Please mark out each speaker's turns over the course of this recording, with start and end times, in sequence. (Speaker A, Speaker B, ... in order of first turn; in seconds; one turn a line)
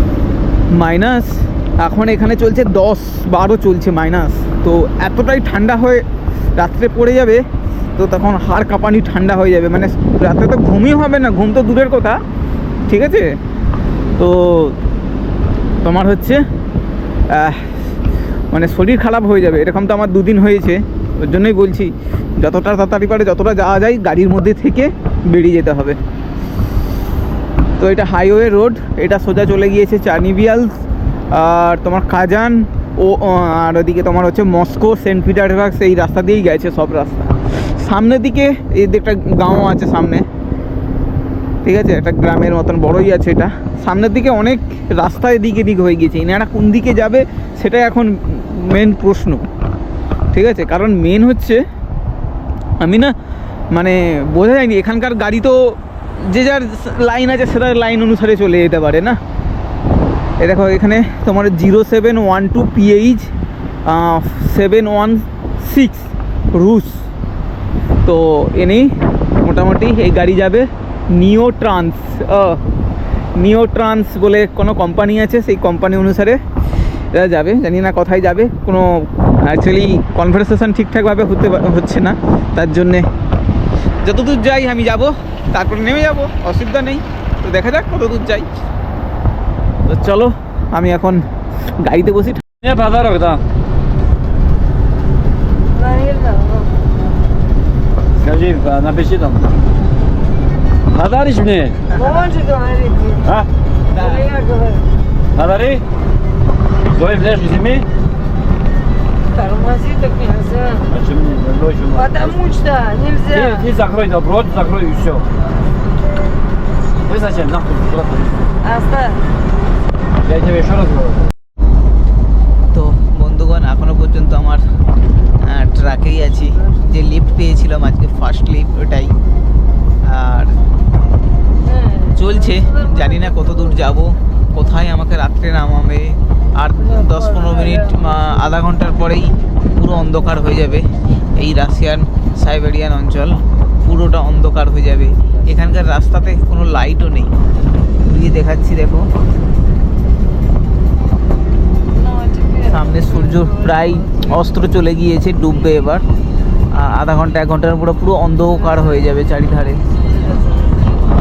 Speaker A: 0.7-6.0
Speaker A: 6.6-7.4
Speaker A: 8.0-12.2
Speaker A: 12.9-13.3
Speaker A: 14.2-14.8
Speaker A: 15.8-16.4
Speaker A: 17.3-17.8
Speaker A: 18.5-26.0
Speaker A: 27.8-30.7
Speaker A: 31.3-40.2
Speaker A: 41.6-49.4
Speaker A: 50.3-51.6
Speaker A: 52.8-53.1
Speaker A: 53.7-59.2
Speaker A: 60.4-63.3
Speaker A: 63.9-67.0
Speaker A: 68.0-72.6
Speaker A: 73.4-76.4
Speaker A: 77.1-83.1
Speaker A: 84.0-88.5
Speaker A: 89.8-92.4
Speaker B: 92.6-93.4
Speaker C: 95.7-96.8
Speaker B: 98.1-99.5
Speaker B: 100.9-101.9
Speaker C: 101.9-103.3
Speaker B: 103.2-103.5
Speaker C: 103.9-104.9
Speaker A: 103.9-104.2
Speaker B: 105.3-105.8
Speaker B: 106.8-107.9
Speaker C: 109.3-110.9
Speaker B: 110.9-112.4
Speaker C: 112.0-113.7
Speaker B: 113.3-115.3
Speaker B: 117.0-118.5
Speaker C: 118.6-119.2
Speaker B: 120.2-121.3
Speaker A: 122.7-124.7
Speaker A: 125.4-129.1
Speaker A: 130.0-130.6
Speaker C: 131.6-133.8
Speaker A: 132.1-147.3
Speaker C: 136.9-138.3
Speaker A: 148.0-149.1
Speaker C: 151.9-154.4
Speaker A: 152.6-156.0
Speaker A: 156.7-159.8
Speaker C: 160.0-160.9